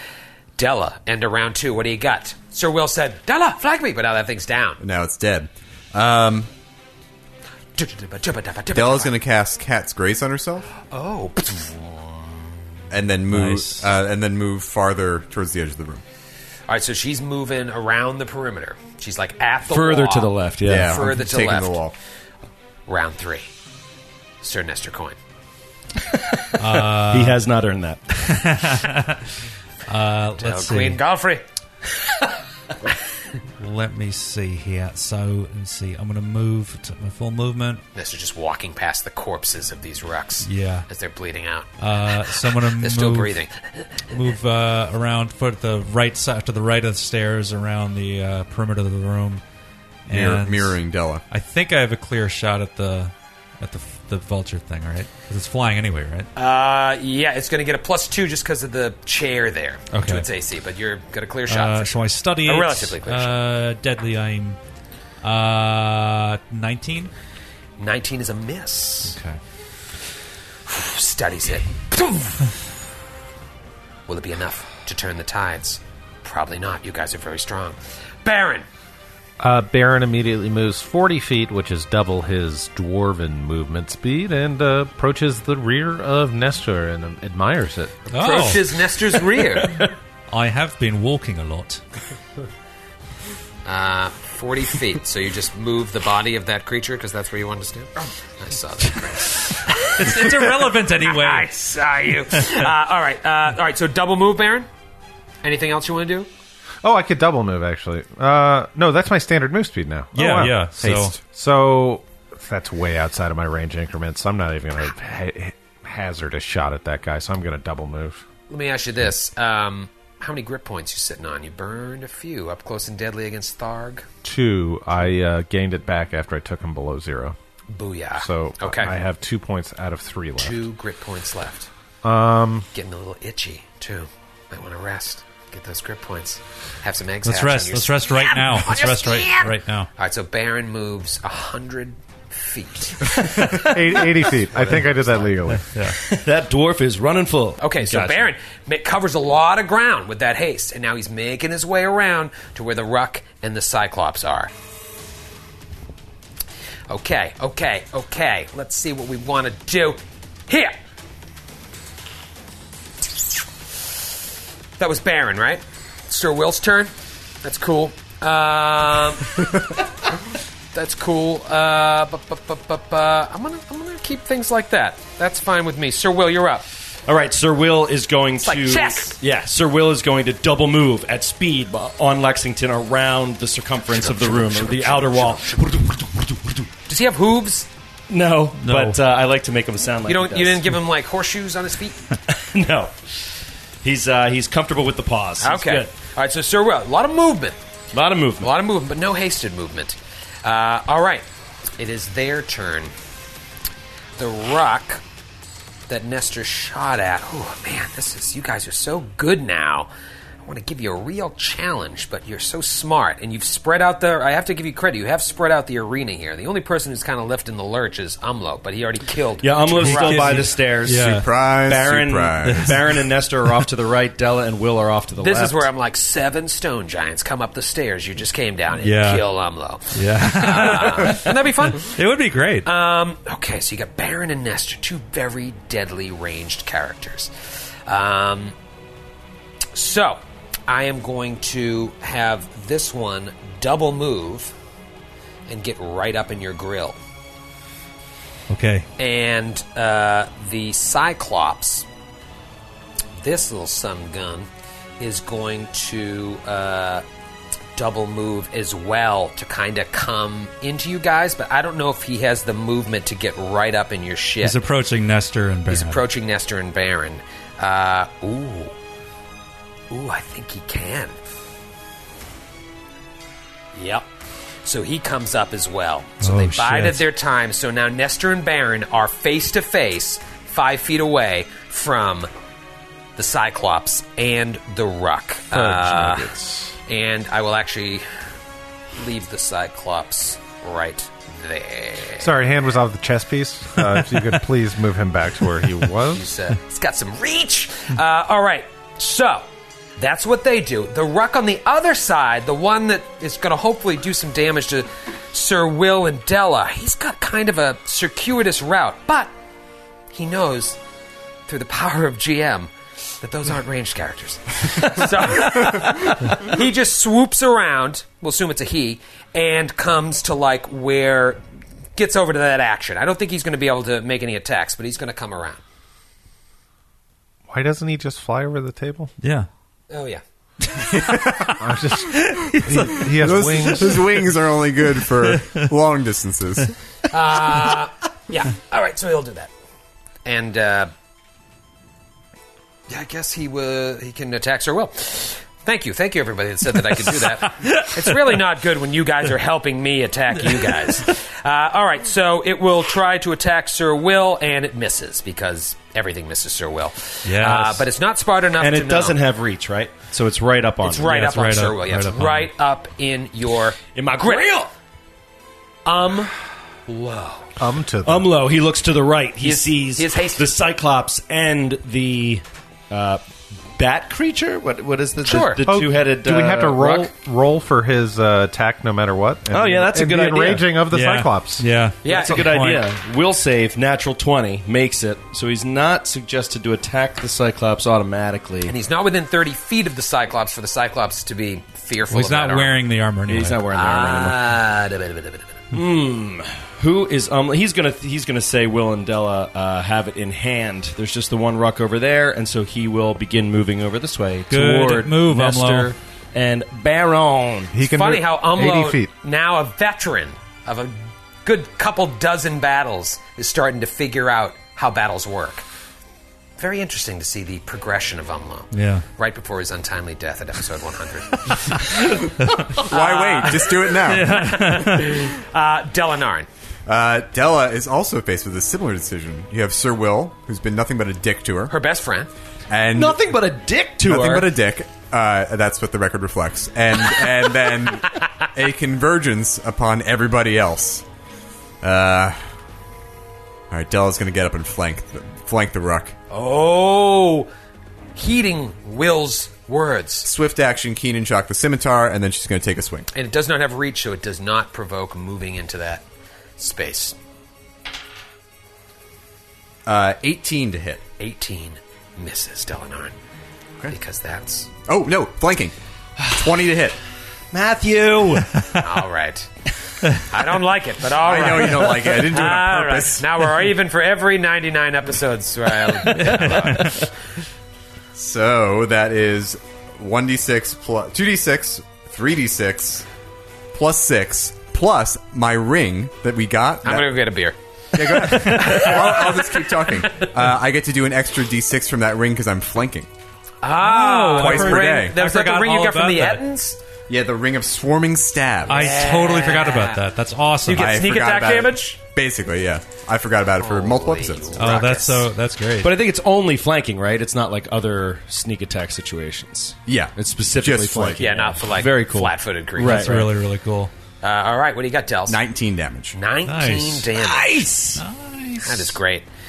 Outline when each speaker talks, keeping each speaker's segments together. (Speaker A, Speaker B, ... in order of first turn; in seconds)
Speaker A: 0.6-4.8, 7.8-9.1, 10.9-12.3, 16.7-21.8, 22.9-23.5, 24.4-25.2, 30.4-31.4, 37.9-43.9, 56.4-63.4, 67.8-69.2, 70.7-72.4, 74.1-78.7, 88.1-89.9, 93.6-104.7, 105.4-106.3, 118.5-124.1, 127.7-128.9, 130.4-131.7, 132.7-145.3, 147.6-154.5, 156.9-160.7, 164.8-169.4, 170.7-176.6, 178.4-179.2, 183.9-185.7, 186.9-187.7, 190.1-192.0, 195.4-197.6, 198.4-201.2, 201.8-202.9, 204.2-205.0, 205.9-209.9, 210.4-220.5, 225.2-232.0, 232.6-237.3, 237.8-238.5, 239.7-244.5, 245.5-247.0, 249.0-251.8, 253.2-254.5, 255.0-257.0, 257.8-264.6, 265.7-268.7, 269.9-271.1, 273.7-274.1, 274.6-282.3, 283.1-286.3, 286.9-288.0, 288.9-292.3, 296.1-299.4, 300.0-309.3, 310.1-310.8, 311.5-321.4, 321.9-325.6, 329.9-330.2, 337.1-339.5, 340.2-340.9, 342.9-359.2, 360.8-364.5, 365.8-366.3, 366.9-367.5, 369.4-370.5, 375.2-375.6, 382.0-382.4, 388.6-392.8, 393.7-395.6, 407.8-415.6, 416.6-422.0, 422.8-426.5, 431.7-432.3, 446.3-447.5, 448.1-450.3, 453.1-456.0, 456.6-457.1, 461.2-463.1, 463.9-464.7, 468.7-469.5, 470.1-477.1, 486.8-490.3, 493.6-496.8, 498.7-500.0, 500.6-502.0, 503.6-505.3, 511.2-513.2, 514.2-515.4, 516.1-517.8, 518.6-519.3
Speaker B: 4.8-6.5, 8.7-10.7, 12.9-16.0, 20.6-21.9, 50.1-51.2, 220.9-222.7, 330.9-331.6, 332.8-336.7, 422.7-424.5, 426.9-431.7, 432.7-433.3, 434.0-441.0, 441.8-442.4, 443.7-446.1, 450.2-453.1, 459.9-461.0, 464.9-467.0, 471.2-473.3, 478.1-483.1, 483.7-487.1, 487.9-493.1, 494.4-495.1, 497.1-498.8, 500.7-504.8, 509.9-511.2, 515.3-516.2
Speaker C: 13.3-13.9, 26.6-27.4, 28.2-29.2, 29.9-31.0, 33.6-37.8, 40.4-40.9, 41.8-43.4, 44.1-49.4, 50.1-50.8, 51.3-56.3, 59.9-60.2, 61.5-64.6, 65.2-67.1, 69.0-69.4, 88.1-88.9, 90.3-91.8, 99.8-101.5, 102.3-102.7, 110.1-111.2, 137.2-139.9, 145.5-146.0, 188.6-189.0, 219.8-221.3, 222.4-222.9, 228.8-229.2, 229.9-232.7, 248.5-248.9, 264.4-266.0, 276.2-277.1, 329.2-329.5, 332.1-333.0, 335.2-335.7, 347.6-348.1, 357.2-357.9, 361.0-362.5, 380.9-382.9, 392.1-393.6, 404.5-405.9, 418.7-419.0, 422.4-422.7, 424.0-425.3, 476.1-477.1, 493.8-496.4, 498.7-500.9, 504.6-505.9, 512.8-513.9, 516.5-517.1, 518.0-518.9
Speaker D: 19.7-21.0, 26.7-28.3, 146.0-148.3, 177.1-186.7, 188.1-190.7, 192.3-193.3, 193.8-195.9, 197.9-198.5, 219.4-221.1, 221.6-225.7, 358.6-361.1, 363.9-364.7, 368.0-373.2, 373.8-377.1, 379.5-380.7, 382.0-388.7, 393.3-394.4, 395.7-407.7, 432.9-434.5, 467.5-468.8, 505.8-513.3, 517.2-518.0
Speaker E: 79.4-87.9, 106.8-118.2, 124.2-127.3, 128.2-130.6, 132.0-132.7, 143.5-145.7, 285.5-286.7, 292.2-296.3, 327.5-329.1, 331.6-334.1, 367.6-368.3, 375.6-381.7, 407.7-409.1